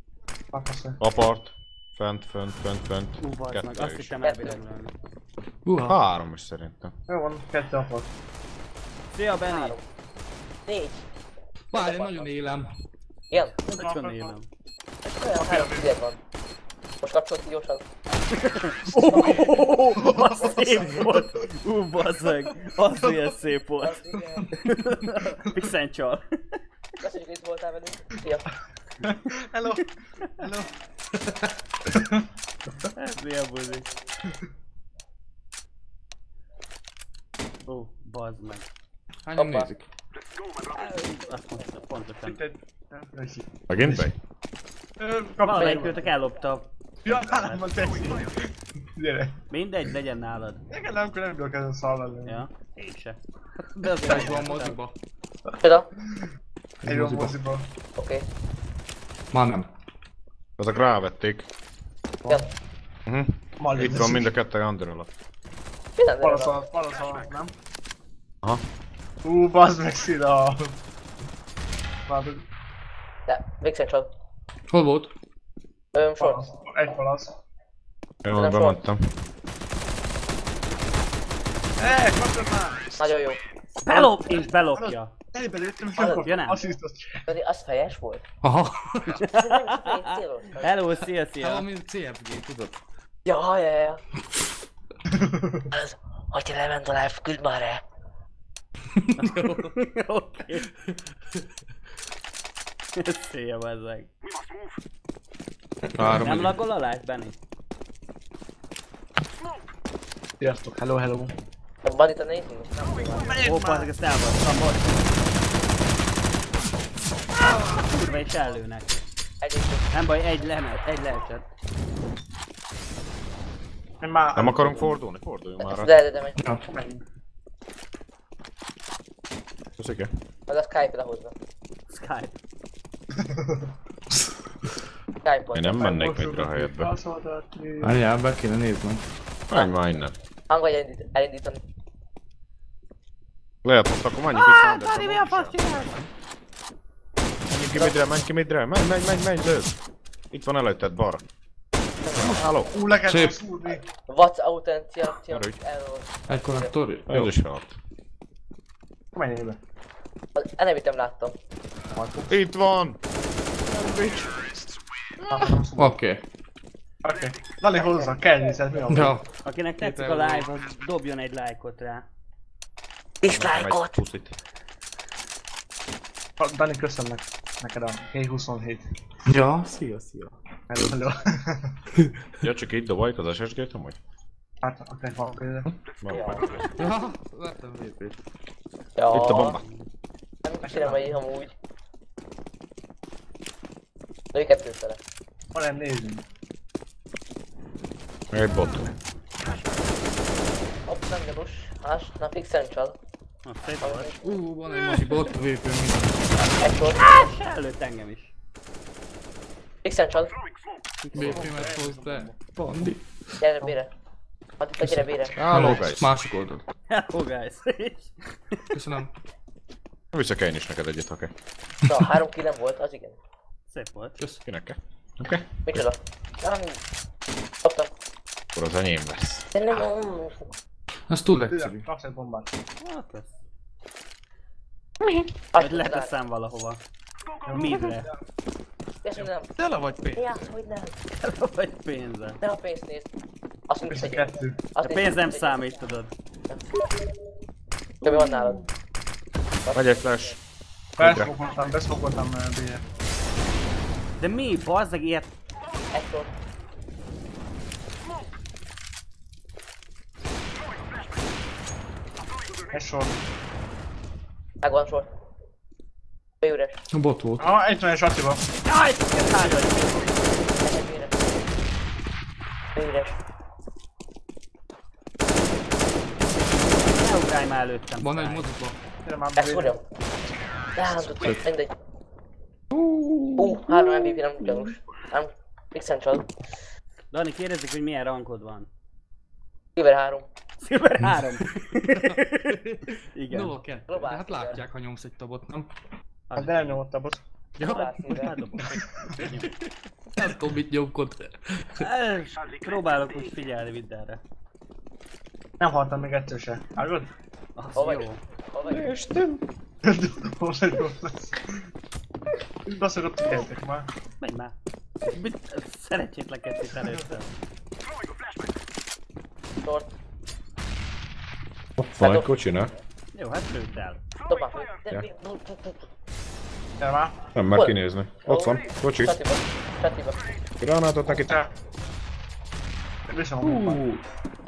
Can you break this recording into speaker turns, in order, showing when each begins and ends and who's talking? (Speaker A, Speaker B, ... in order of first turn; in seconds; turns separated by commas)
Speaker A: 0.5-1.0, Speaker B: 1.0-4.1, Speaker C: 3.2-4.9, Speaker D: 4.2-4.6, Speaker E: 5.6-6.0, Speaker B: 5.8-6.9, Speaker A: 7.1-8.1, Speaker C: 9.1-9.8, Speaker D: 9.5-9.8, Speaker D: 10.7-11.1, Speaker E: 11.7-12.7, Speaker D: 11.7-12.3, Speaker D: 13.3-13.6, Speaker C: 13.6-14.4, Speaker A: 13.7-14.4, Speaker D: 15.0-16.2, Speaker A: 15.3-15.9, Speaker D: 17.0-17.9, Speaker C: 18.3-26.6, Speaker D: 19.1-19.6, Speaker A: 20.0-20.3, Speaker D: 20.2-21.0, Speaker D: 23.8-24.7, Speaker D: 27.0-28.5, Speaker A: 29.0-30.7, Speaker A: 31.9-32.2, Speaker C: 32.9-33.9, Speaker C: 37.7-38.6, Speaker E: 39.2-39.9, Speaker D: 39.4-39.7, Speaker C: 40.7-42.4, Speaker A: 42.2-44.1, Speaker B: 43.7-44.1, Speaker A: 45.0-46.0, Speaker C: 45.4-47.7, Speaker A: 47.0-49.4, Speaker C: 49.5-50.6, Speaker A: 50.7-52.5, Speaker C: 52.2-54.8, Speaker E: 54.0-55.0, Speaker A: 54.0-54.5, Speaker D: 55.6-55.9, Speaker E: 56.8-57.4, Speaker A: 56.9-57.6, Speaker D: 58.0-58.2, Speaker E: 59.3-59.7, Speaker B: 60.6-61.5, Speaker B: 63.1-65.1, Speaker A: 63.6-64.3, Speaker D: 66.0-66.6, Speaker A: 66.2-67.5, Speaker A: 69.2-70.7, Speaker A: 72.1-72.4, Speaker D: 73.3-74.1, Speaker E: 74.7-75.1, Speaker D: 75.9-76.5, Speaker A: 76.2-77.3, Speaker B: 78.2-79.0, Speaker D: 78.3-78.8, Speaker A: 81.8-82.9, Speaker D: 83.0-83.4, Speaker C: 83.8-85.1, Speaker A: 83.9-87.3, Speaker D: 86.0-86.3, Speaker C: 86.2-86.6, Speaker D: 87.3-88.2, Speaker E: 88.4-89.2, Speaker D: 89.1-90.9, Speaker C: 89.2-91.7, Speaker E: 91.4-92.8, Speaker D: 93.2-94.0, Speaker A: 95.1-95.7, Speaker D: 95.7-97.8, Speaker E: 99.0-99.7, Speaker C: 99.2-100.7, Speaker C: 103.0-104.1, Speaker E: 105.8-106.6, Speaker C: 106.1-107.3, Speaker A: 110.4-111.3, Speaker D: 111.8-113.5, Speaker A: 113.2-113.9, Speaker C: 113.4-115.0, Speaker C: 117.8-119.0, Speaker D: 119.4-119.9, Speaker C: 119.9-121.4, Speaker A: 124.0-124.9, Speaker B: 124.3-125.9, Speaker D: 125.6-126.6, Speaker A: 126.6-127.0, Speaker B: 129.8-130.1, Speaker D: 130.5-131.3, Speaker C: 131.9-132.4, Speaker A: 133.2-133.6, Speaker D: 135.2-136.0, Speaker B: 135.5-136.9, Speaker A: 135.8-138.0, Speaker E: 137.8-139.0, Speaker B: 139.5-140.1, Speaker D: 140.5-141.6, Speaker B: 143.6-146.1, Speaker C: 144.3-146.0, Speaker B: 147.5-149.8, Speaker B: 150.3-151.2, Speaker D: 152.1-152.4, Speaker B: 152.2-152.7, Speaker A: 152.7-153.9, Speaker E: 153.1-153.4, Speaker D: 154.1-156.7, Speaker B: 155.3-155.6, Speaker E: 156.3-157.3, Speaker B: 157.1-157.8, Speaker A: 159.1-159.6, Speaker D: 160.3-161.3, Speaker A: 161.9-162.3, Speaker B: 162.3-163.0, Speaker A: 163.7-164.3, Speaker A: 165.2-166.0, Speaker E: 165.3-166.2, Speaker A: 167.0-169.2, Speaker E: 168.9-169.3, Speaker C: 169.4-172.1, Speaker E: 169.8-170.5, Speaker D: 173.2-173.9, Speaker B: 173.3-174.3, Speaker A: 176.4-178.8, Speaker E: 179.3-180.4, Speaker A: 180.7-181.8, Speaker B: 182.4-184.0, Speaker A: 184.6-185.7, Speaker B: 185.9-186.7, Speaker D: 186.1-186.4, Speaker E: 186.8-188.2, Speaker D: 188.9-189.6, Speaker B: 189.1-189.7, Speaker D: 190.4-191.5, Speaker A: 190.6-191.1, Speaker D: 194.3-195.0, Speaker A: 195.5-196.2, Speaker B: 198.3-198.9, Speaker D: 200.9-202.9, Speaker C: 203.4-204.1, Speaker D: 203.8-204.4, Speaker E: 204.2-206.2, Speaker B: 204.7-205.2, Speaker D: 206.5-207.3, Speaker C: 206.9-208.3, Speaker D: 209.8-210.3, Speaker C: 211.0-211.6, Speaker A: 211.1-212.3, Speaker E: 211.1-213.4, Speaker D: 213.4-213.9, Speaker D: 214.6-215.4, Speaker B: 215.2-216.1, Speaker E: 215.4-216.6, Speaker C: 216.9-218.6, Speaker E: 218.7-219.1, Speaker B: 220.1-221.3, Speaker D: 221.8-223.2, Speaker C: 223.7-224.2, Speaker B: 224.4-225.8, Speaker D: 225.6-226.8, Speaker D: 227.6-227.9, Speaker B: 228.5-229.5, Speaker D: 229.5-230.5, Speaker E: 231.1-231.8, Speaker A: 231.4-232.5, Speaker C: 232.8-233.4, Speaker D: 235.5-236.1, Speaker C: 235.6-236.8, Speaker A: 237.4-238.2, Speaker C: 237.5-238.1, Speaker D: 239.0-239.5, Speaker E: 239.6-240.2, Speaker D: 240.1-240.9, Speaker C: 241.2-242.4, Speaker D: 242.4-243.1, Speaker D: 243.7-245.8, Speaker A: 243.9-244.7, Speaker C: 244.8-246.1, Speaker D: 248.0-248.6, Speaker B: 248.0-248.5, Speaker D: 249.7-250.0, Speaker B: 249.7-250.4, Speaker B: 251.0-251.3, Speaker A: 251.0-252.8, Speaker C: 254.2-255.3, Speaker D: 255.9-256.3, Speaker A: 262.7-263.1, Speaker D: 264.6-265.1, Speaker D: 266.4-266.8, Speaker E: 266.9-267.4, Speaker A: 267.4-268.4, Speaker C: 268.6-270.1, Speaker D: 270.6-271.5, Speaker D: 272.7-273.2, Speaker C: 276.8-278.5, Speaker E: 278.0-278.8, Speaker A: 279.0-279.8, Speaker D: 279.4-279.8, Speaker D: 280.7-281.7, Speaker E: 282.7-283.8, Speaker D: 283.4-286.3, Speaker C: 287.1-288.7, Speaker D: 289.8-290.3, Speaker C: 290.6-293.6, Speaker E: 292.0-295.7, Speaker D: 293.9-294.6, Speaker C: 296.3-296.8, Speaker A: 296.4-297.2, Speaker C: 297.6-299.5, Speaker D: 297.6-298.4, Speaker A: 298.7-299.3, Speaker E: 300.1-301.9, Speaker C: 301.8-304.2, Speaker A: 305.6-307.1, Speaker C: 307.6-308.2, Speaker D: 307.7-308.9, Speaker B: 308.7-309.4, Speaker A: 309.8-311.6, Speaker A: 312.6-313.9, Speaker C: 314.2-317.3, Speaker D: 319.6-319.9, Speaker B: 321.8-322.7, Speaker D: 322.0-322.3, Speaker C: 323.1-324.0, Speaker D: 324.3-325.9, Speaker A: 326.8-327.3, Speaker B: 327.3-329.2, Speaker D: 327.5-330.2, Speaker B: 330.6-331.4, Speaker A: 331.2-331.5, Speaker A: 333.1-333.8, Speaker E: 333.4-334.0